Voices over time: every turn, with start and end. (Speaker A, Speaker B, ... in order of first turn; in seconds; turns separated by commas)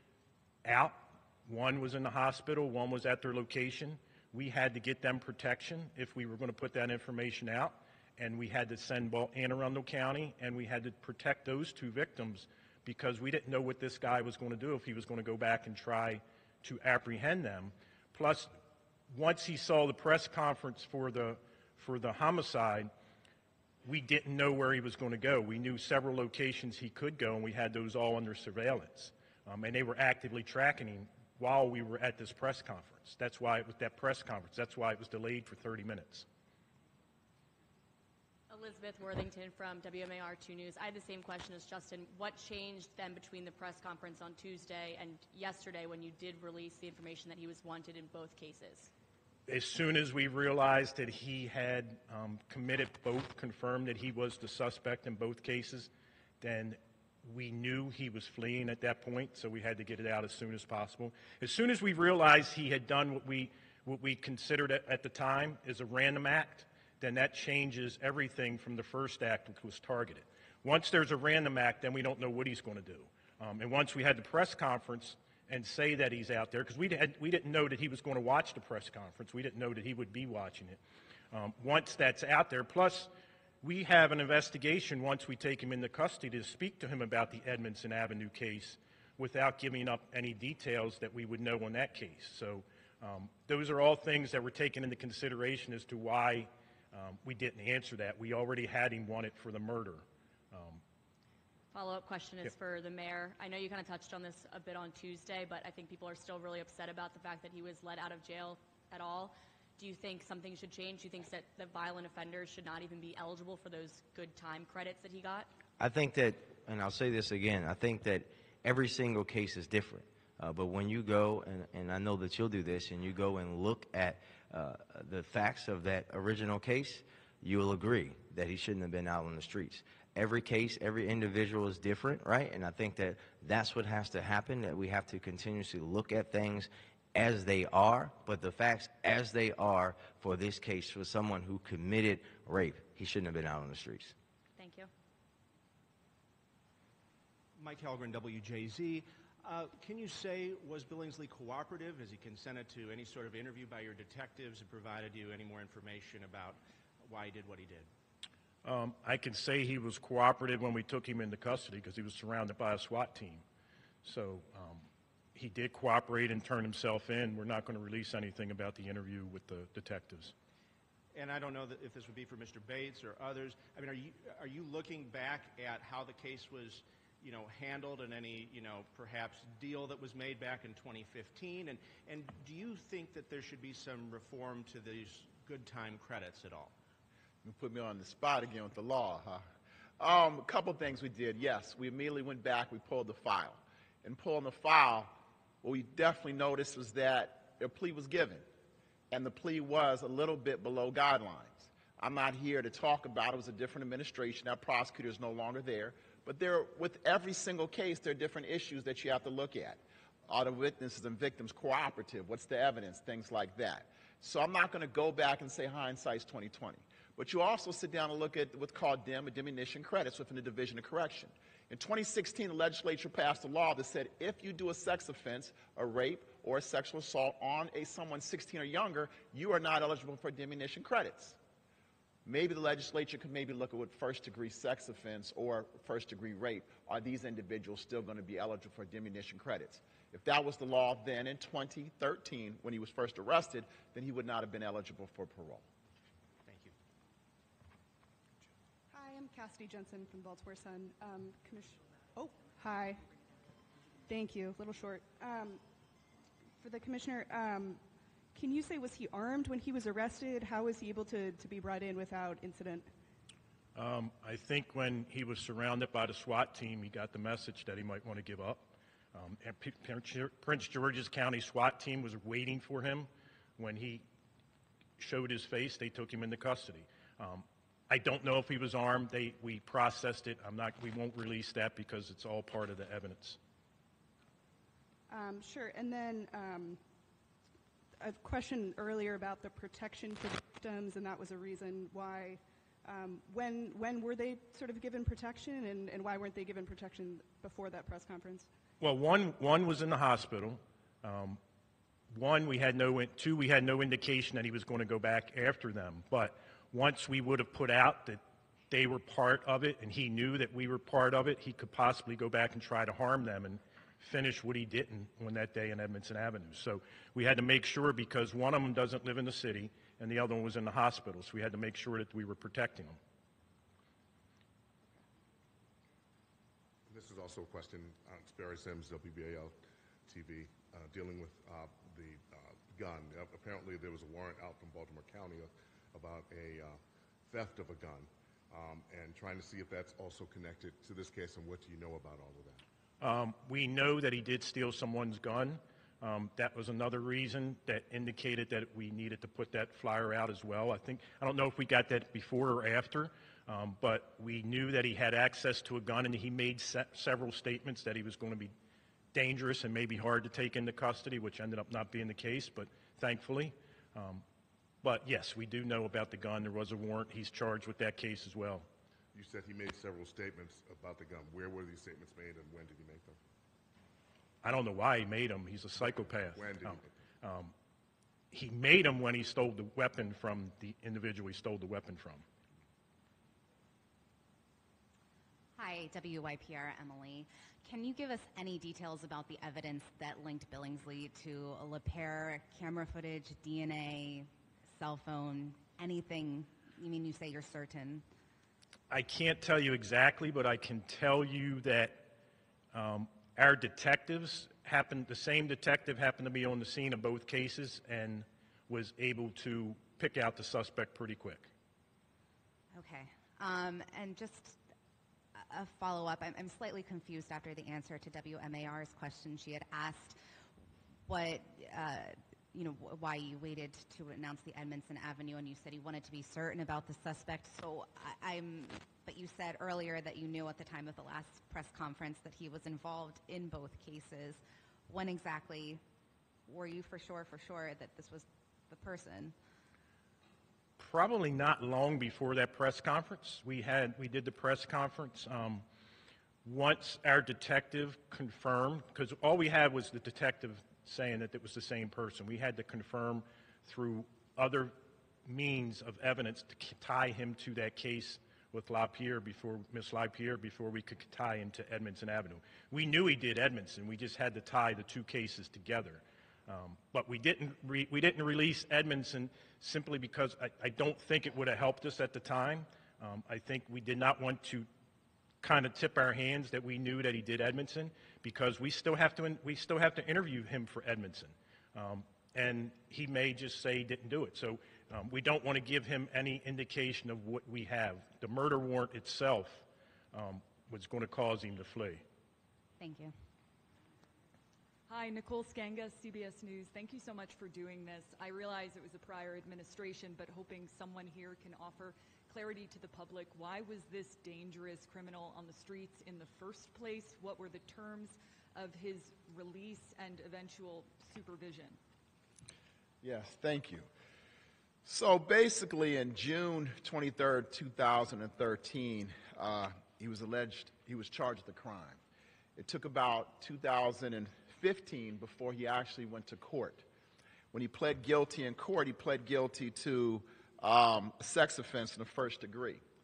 Speaker A: 0.6-18.5, Speaker A: 19.1-22.9, Speaker A: 23.8-36.2, Speaker B: 38.5-48.9, Speaker A: 49.5-80.8, Speaker A: 81.3-83.1, Speaker A: 83.6-100.8, Speaker B: 101.7-115.5, Speaker C: 115.8-144.1, Speaker B: 144.6-144.9, Speaker D: 147.5-157.9, Speaker A: 158.6-163.4, Speaker A: 164.0-170.3, Speaker D: 171.1-186.7, Speaker E: 187.4-189.5, Speaker E: 190.0-195.1, Speaker E: 195.6-198.4, Speaker E: 199.1-231.4, Speaker E: 232.2-245.7, Speaker D: 246.4-246.7, Speaker F: 248.9-253.0, Speaker F: 254.1-255.6, Speaker F: 256.6-257.8, Speaker F: 258.3-262.9, Speaker A: 263.8-274.1, Speaker A: 275.0-283.4, Speaker F: 285.1-286.8, Speaker F: 288.0-298.5, Speaker A: 298.8-301.4, Speaker A: 302.1-323.0, Speaker G: 326.9-329.5, Speaker G: 330.1-342.6, Speaker A: 343.0-358.5, Speaker A: 359.1-364.2, Speaker A: 364.8-368.7, Speaker G: 369.1-373.2, Speaker A: 374.4-377.5, Speaker G: 376.3-376.9, Speaker A: 378.3-382.2, Speaker H: 385.5-398.0, Speaker A: 398.9-402.1, Speaker A: 402.7-411.5, Speaker H: 412.7-414.6, Speaker H: 415.4-420.2, Speaker H: 421.1-435.8, Speaker H: 436.5-439.3, Speaker A: 440.8-445.6, Speaker A: 446.4-474.7, Speaker A: 475.4-492.0, Speaker H: 492.8-493.1, Speaker I: 494.9-511.8, Speaker E: 513.0-513.9, Speaker E: 514.8-522.0, Speaker E: 522.5-526.9, Speaker E: 527.5-532.8